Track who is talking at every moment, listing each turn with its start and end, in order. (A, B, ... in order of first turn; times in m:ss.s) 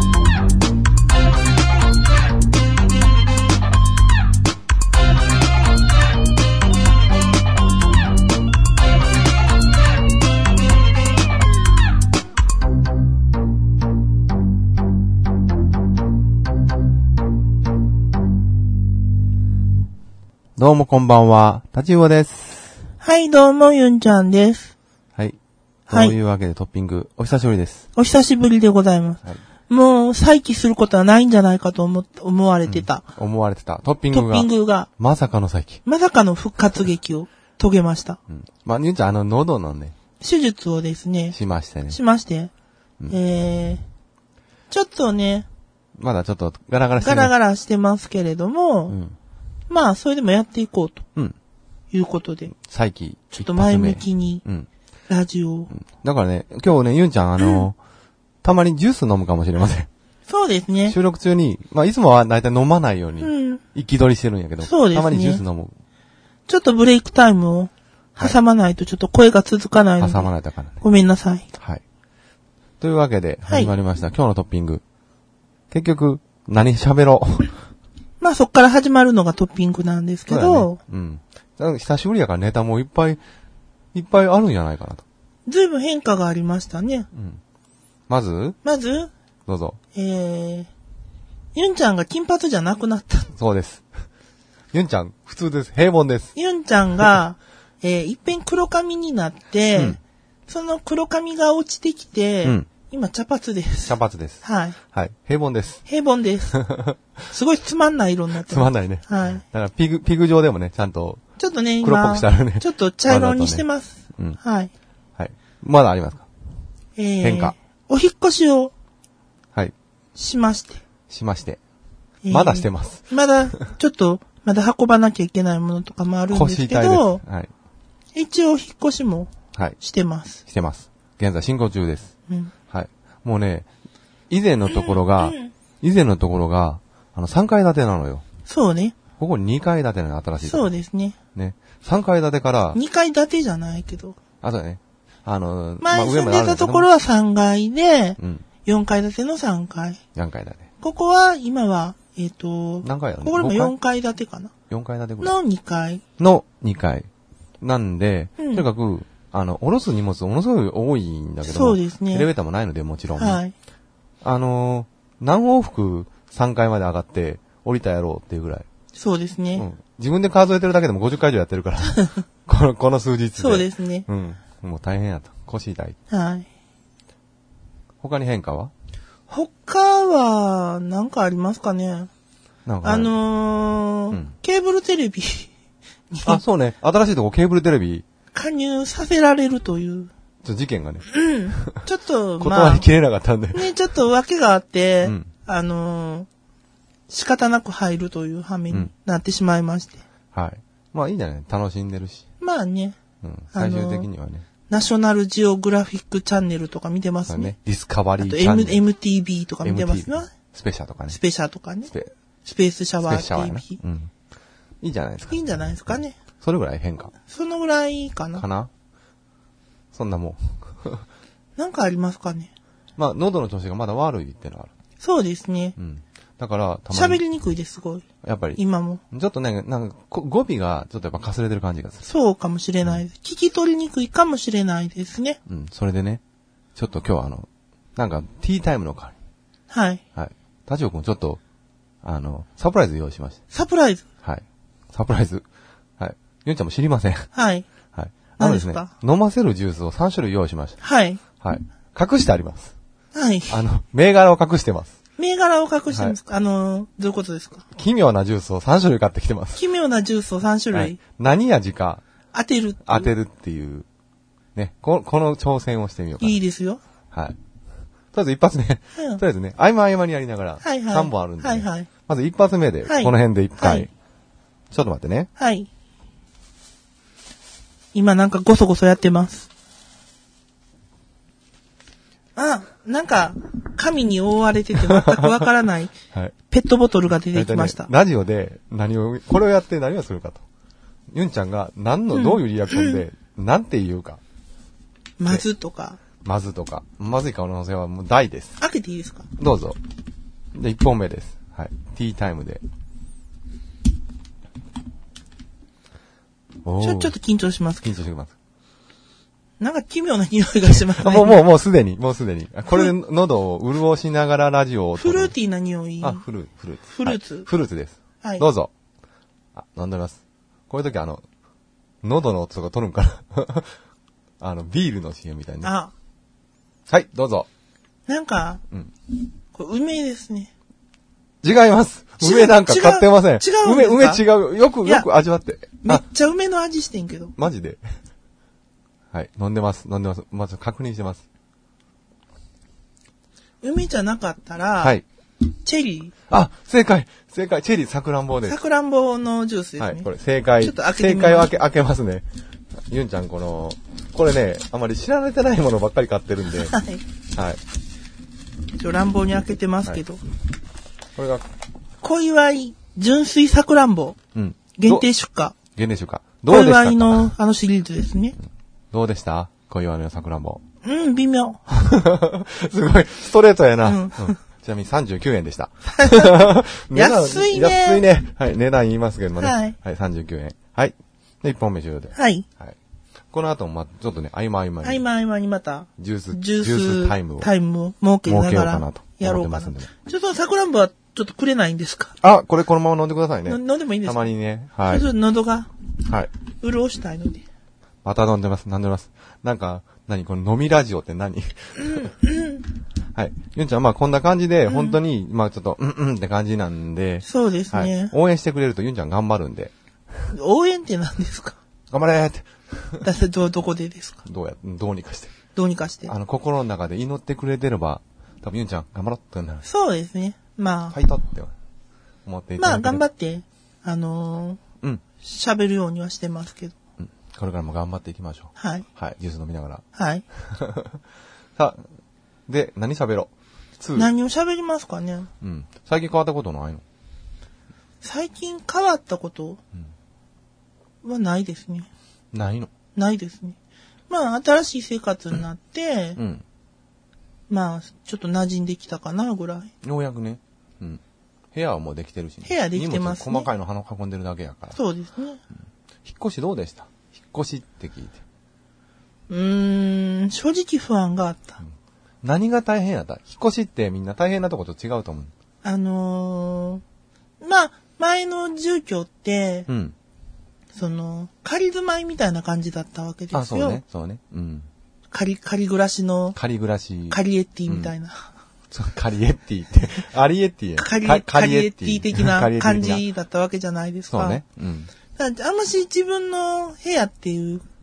0:20.6-0:22.8 A
0:23.0-0:24.7 B
0:25.9-0:26.2 B
0:25.9-0:27.8 A
0:28.0-0:33.1 B
0:32.6-0:35.8 A
0:34.1-0:34.9 B
0:35.8-0:38.2 B
0:38.3-0:40.0 A
0:40.2-0:41.4 B
0:41.3-0:42.0 A
0:41.9-0:42.5 B
0:43.1-0:43.8 B
0:44.7-0:45.5 B
0:46.0-0:47.3 A
0:47.0-0:49.0 B
0:48.9-0:49.2 A
0:49.7-0:51.1 B
0:51.9-0:52.5 B
0:52.5-0:54.7 A
0:53.3-0:54.4 B
0:55.1-0:55.7 B
0:55.7-0:57.8 A
0:57.4-0:57.6 B
0:58.4-0:59.9 A
1:00.3-1:01.0 B
1:00.9-1:05.8 A
1:03.2-1:03.6 B
1:04.6-1:05.4 B
1:06.5-1:10.3 B
1:10.0-1:10.8 A
1:10.8-1:11.5 B
1:12.8-1:14.8 A
1:13.5-1:13.7 B
1:15.7-1:17.6 A
1:18.2-1:20.8 B
1:20.3-1:23.2 A
1:23.9-1:25.0 A
1:25.5-1:27.1 B
1:27.1-1:27.4 A
1:28.1-1:28.6 A
1:28.6-1:29.1 B
1:29.5-1:29.8 A
1:29.9-1:30.7 B
1:31.6-1:33.3 B
1:33.4-1:33.8 A
1:34.7-1:36.3 A
1:36.4-1:44.8 B
1:42.4-1:42.7 A
1:43.9-1:45.8 A
1:45.9-1:46.6 B
1:46.5-1:47.0 A
1:47.3-1:49.4 B
1:48.4-1:51.2 A
1:51.4-1:54.7 B
1:51.8-1:53.6 A
1:55.2-1:56.3 A
1:57.0-1:58.7 B
1:57.2-1:57.6 A
2:00.2-2:00.8 B
2:01.1-2:01.6 A
2:02.2-2:07.2 B
2:02.3-2:03.1 A
2:06.3-2:07.5 A
2:08.2-2:10.4 B
2:10.5-2:12.1 A
2:12.7-2:13.7 A
2:14.3-2:18.2 A
2:14.6-2:15.5 B
2:18.5-2:19.0 B
2:19.2-2:20.7 A
2:20.4-2:21.2 B
2:21.4-2:22.8 A
2:22.7-2:24.2 B
2:24.4-2:26.9 A
2:25.8-2:30.0 B
2:28.2-2:28.4 A
2:30.2-2:30.7 A
2:30.8-2:34.5 B
2:32.8-2:33.7 A
2:34.7-2:35.4 A
2:35.2-2:36.0 B
2:36.2-2:37.1 A
2:37.6-2:43.4 A
2:38.4-2:38.6 B
2:41.4-2:42.3 B
2:43.2-2:43.5 B
2:44.2-2:48.7 A
2:49.0-2:49.7 B
2:49.6-2:56.0 A
2:51.9-2:52.2 B
2:53.4-2:54.1 B
2:56.1-2:56.5 B
2:58.0-2:58.7 A
2:59.3-3:02.1 B
3:02.7-3:03.2 A
3:02.8-3:05.5 B
3:06.1-3:06.4 B
3:06.3-3:08.1 A
3:08.3-3:10.1 B
3:10.4-3:11.1 A
3:11.1-3:12.9 B
3:12.4-3:13.7 A
3:13.5-3:16.3 B
3:15.0-3:15.3 A
3:17.1-3:20.0 B
3:20.3-3:22.2 A
3:22.4-3:23.0 B
3:23.2-3:24.5 A
3:23.5-3:24.1 B
3:24.7-3:27.5 B
3:27.3-3:28.8 A
3:28.2-3:30.3 B
3:29.6-3:31.2 A
3:31.1-3:31.9 B
3:32.4-3:33.8 B
3:33.0-3:34.1 A
3:34.8-3:37.1 A
3:35.3-3:36.2 B
3:37.2-3:38.4 B
3:38.4-3:38.7 A
3:39.9-3:41.1 A
3:41.6-3:42.5 B
3:43.0-3:44.7 A
3:45.0-3:45.8 B
3:45.8-3:47.2 A
3:46.9-3:49.0 B
3:48.2-3:52.0 A
3:52.0-3:55.4 B
3:55.5-3:56.2 A
3:56.8-3:59.1 A
3:59.7-4:00.0 B
4:00.2-4:01.4 A
4:02.0-4:03.4 A
4:03.5-4:04.1 B
4:04.2-4:05.4 A
4:06.0-4:07.3 A
4:07.3-4:07.7 B
4:07.9-4:10.8 A
4:08.4-4:08.9 B
4:10.8-4:11.2 B
4:11.4-4:12.7 A
4:13.1-4:13.6 B
4:13.5-4:14.9 A
4:15.2-4:17.7 B
4:15.9-4:16.2 A
4:17.7-4:19.6 A
4:19.6-4:21.0 B
4:20.7-4:22.0 A
4:22.3-4:23.1 B
4:22.8-4:23.9 A
4:24.6-4:26.4 A
4:26.2-4:26.8 B
4:27.1-4:27.4 A
4:28.1-4:33.9 A
4:29.0-4:29.2 B
4:30.6-4:31.9 B
4:32.9-4:33.9 B
4:34.7-4:35.3 A
4:35.4-4:35.7 B
4:37.9-4:39.5 B
4:42.4-4:45.9 B
4:44.8-4:45.5 A
4:46.5-4:47.9 B
4:47.3-4:50.4 A
4:51.1-4:54.2 A
4:52.1-4:53.0 B
4:55.2-4:56.0 B
4:56.2-4:58.6 A
4:58.6-4:59.3 B
4:59.4-4:59.8 A
5:00.5-5:02.6 A
5:06.6-5:07.2 A
5:06.8-5:07.9 B
5:07.8-5:08.3 A
5:09.6-5:11.4 B
5:10.7-5:15.3 A
5:15.0-5:16.2 B
5:16.0-5:18.7 A
5:16.9-5:17.5 B
5:19.5-5:21.2 A
5:22.0-5:23.7 A
5:24.4-5:25.7 A
5:25.6-5:25.9 B
5:26.9-5:27.5 A
5:28.1-5:28.6 B
5:29.5-5:30.5 B
5:31.4-5:36.0 A
5:32.2-5:34.2 B
5:35.8-5:37.3 B
5:37.4-5:37.8 A
5:39.1-5:41.2 A
5:43.6-5:45.0 B
5:45.6-5:46.1 B
5:46.3-5:48.6 A
5:48.5-5:50.1 B
5:49.8-5:52.3 A
5:50.6-5:51.5 B
5:52.9-5:56.8 A
5:56.6-5:57.0 B
5:57.3-5:57.6 A
5:58.8-6:00.2 B
6:01.2-6:01.5 A
6:02.0-6:04.2 B
6:04.4-6:05.1 A
6:04.8-6:05.6 B
6:05.7-6:07.3 A
6:06.5-6:08.4 B
6:08.9-6:10.6 A
6:10.8-6:11.7 B
6:11.7-6:22.8 A
6:13.8-6:14.4 B
6:15.9-6:18.0 B
6:19.4-6:19.8 B
6:22.2-6:22.5 B
6:23.3-6:25.0 A
6:24.8-6:32.2 B
6:26.0-6:27.5 A
6:28.2-6:29.9 A
6:32.2-6:35.1 A
6:33.5-6:34.3 B
6:34.8-6:35.7 B
6:36.6-6:37.4 B
6:38.0-6:42.1 A
6:41.8-6:42.7 B
6:43.2-6:49.7 A
6:44.7-6:45.0 B
6:47.3-6:48.1 B
6:50.3-6:51.6 B
6:51.9-6:53.1 A
6:53.0-6:54.2 B
6:54.2-6:55.4 A
6:55.6-6:56.1 B
6:56.1-6:59.7 A
6:59.6-7:01.0 B
7:00.9-7:01.5 A
7:02.2-7:03.0 A
7:02.6-7:04.6 B
7:05.2-7:06.8 B
7:07.0-7:09.8 A
7:08.6-7:08.9 B
7:10.0-7:10.2 B
7:10.4-7:11.0 A
7:11.6-7:11.8 A
7:12.5-7:14.1 A
7:14.0-7:15.3 B
7:15.4-7:16.8 A
7:18.0-7:19.6 B
7:21.0-7:21.9 B
7:22.3-7:22.7 A
7:23.0-7:23.6 B
7:24.1-7:26.2 B
7:26.2-7:26.4 A
7:27.5-7:29.7 B
7:29.8-7:31.0 A
7:31.5-7:34.8 A
7:32.4-7:33.5 B
7:34.8-7:35.4 B
7:36.0-7:38.2 A
7:39.3-7:41.6 B
7:42.2-7:45.3 A
7:45.6-7:46.8 B
7:47.4-7:49.7 B
7:49.7-7:50.0 A
7:50.8-7:53.8 B
7:53.3-7:54.7 A
7:55.1-7:56.4 B
7:56.4-7:57.9 A
7:57.1-7:58.3 B
7:58.7-8:03.0 A
8:00.8-8:04.4 B
8:04.1-8:04.9 A
8:05.2-8:07.6 B